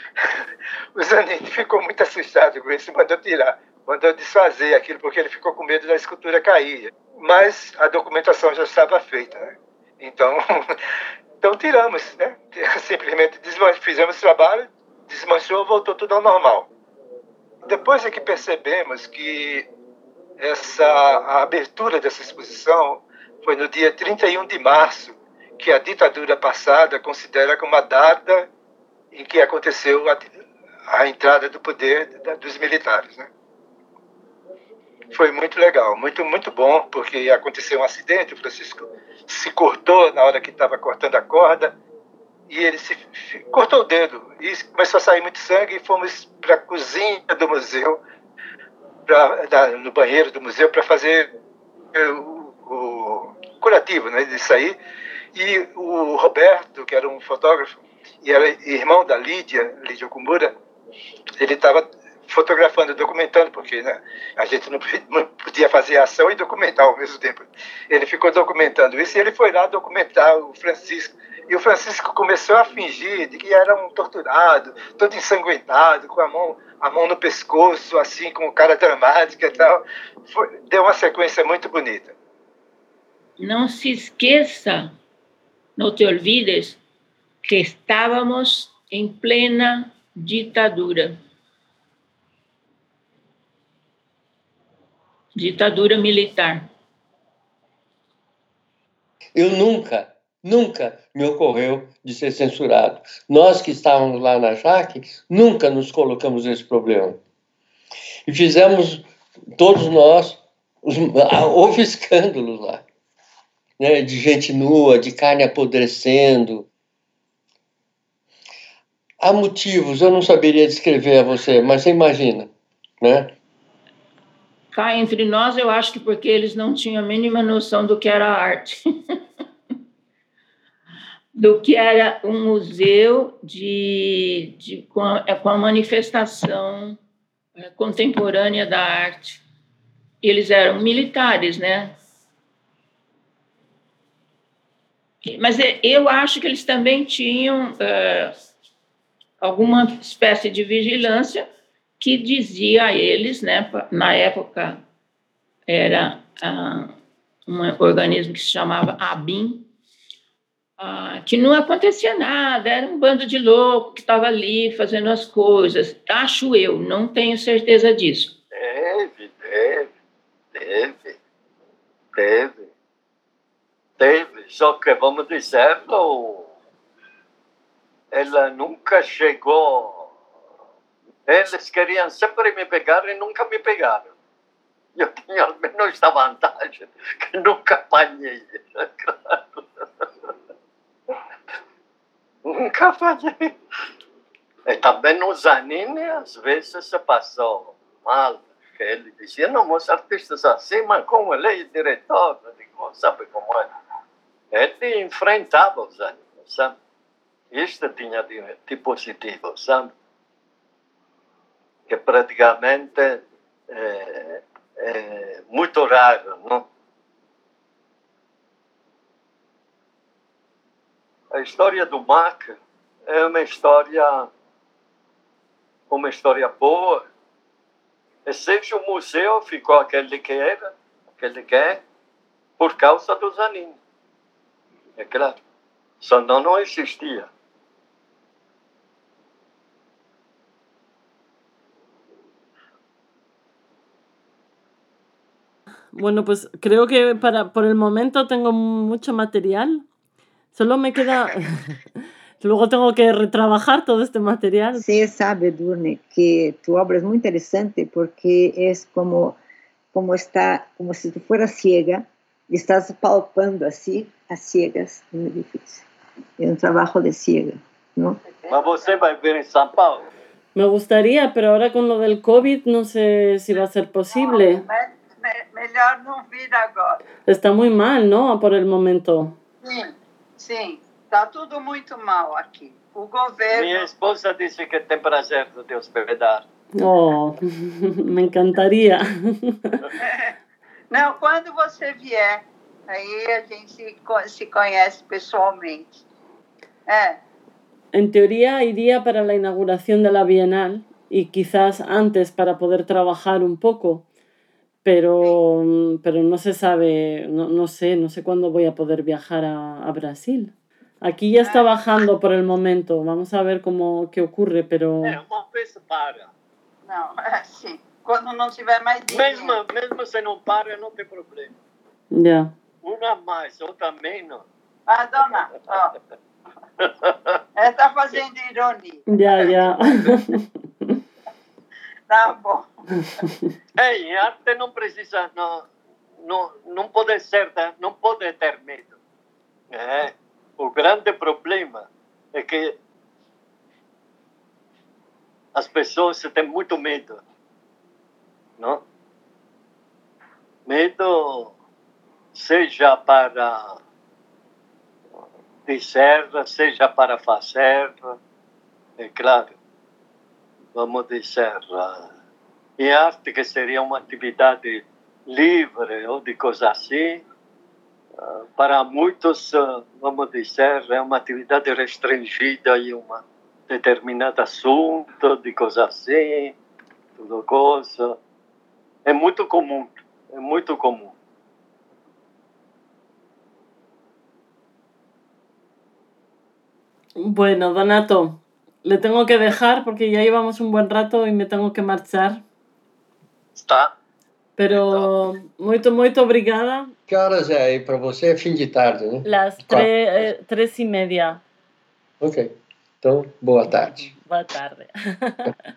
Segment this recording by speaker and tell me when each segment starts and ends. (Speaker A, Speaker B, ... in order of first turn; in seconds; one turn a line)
Speaker A: 0.9-10.8
Speaker A: 11.4-16.7
Speaker A: 17.6-19.7
Speaker A: 20.4-28.5
Speaker A: 29.1-30.3
Speaker A: 30.9-33.3
Speaker A: 35.1-41.7
Speaker A: 42.5-48.0
Speaker A: 49.1-51.3
Speaker A: 51.9-54.8
Speaker A: 55.3-60.5
Speaker A: 61.4-82.1
Speaker B: 83.4-84.9
Speaker B: 85.8-86.8
Speaker B: 87.4-91.2
Speaker B: 95.4-96.7
Speaker C: 99.3-107.2
Speaker C: 108.3-109.0
Speaker C: 109.6-112.8
Speaker C: 113.8-116.7
Speaker C: 119.2-123.3
Speaker B: 124.7-128.8
Speaker B: 131.3-137.0
Speaker B: 137.6-139.4
Speaker B: 140.2-142.0
Speaker B: 145.2-148.3
Speaker B: 149.4-151.5
Speaker B: 152.0-154.8
Speaker B: 155.7-157.0
Speaker B: 157.5-159.7
Speaker B: 160.8-168.3
Speaker D: 168.5-169.9
Speaker D: 170.5-171.2
Speaker D: 172.2-172.7
Speaker D: 174.0-176.5
Speaker D: 178.1-180.1
Speaker D: 181.3-184.1
Speaker D: 185.0-190.3
Speaker D: 192.4-193.5
Speaker D: 194.7-203.7
Speaker D: 204.5-206.7
Speaker D: 207.5-209.9
Speaker D: 211.9-216.7
Speaker D: 221.3-224.3
Speaker D: 225.9-227.1
Speaker D: 228.3-231.8
Speaker D: 232.6-233.8
Speaker D: 235.0-235.4
Speaker D: 236.0-237.3
Speaker E: 245.9-249.8
Speaker E: 250.5-251.8
Speaker E: 252.4-254.9
Speaker F: 254.7-259.4
Speaker F: 259.9-265.9
Speaker F: 266.4-268.2
Speaker D: 268.5-270.1
Speaker E: 270.6-274.7
Speaker G: 274.2-274.9
Speaker G: 275.6-276.9
Speaker E: 277.3-279.4
Speaker G: 280.4-283.4
Speaker D: 283.5-286.4
Speaker E: 286.8-289.8
Speaker G: 290.9-292.4
Speaker G: 292.9-295.9
Speaker E: 297.9-304.1
Speaker E: 304.9-315.2
Speaker D: 315.0-316.3
Speaker G: 316.9-319.5
Speaker D: 319.1-321.6
Speaker E: 322.1-322.5
Speaker D: 322.8-324.4
Speaker G: 324.9-325.4
Speaker D: 326.8-327.4
Speaker G: 327.6-329.0
Speaker E: 329.1-330.9
Speaker G: 332.1-332.6
Speaker D: 333.8-335.7
Speaker D: 336.2-339.0
Speaker D: 339.7-342.8
Speaker D: 345.6-347.2
Speaker D: 348.6-348.8
Speaker D: 350.7-351.5
Speaker D: 352.3-353.7
Speaker D: 355.7-358.2
Speaker D: 359.0-359.6
Speaker D: 360.8-362.1
Speaker D: 362.8-367.2
Speaker D: 368.2-376.6
Speaker D: 377.2-378.2
Speaker D: 379.1-381.1
Speaker E: 387.2-392.4
Speaker D: 393.6-393.9
Speaker E: 394.6-396.9
Speaker D: 394.7-395.1
Speaker C: 397.1-399.9
Speaker E: 399.2-401.4
Speaker C: 402.2-404.1
Speaker E: 403.7-405.6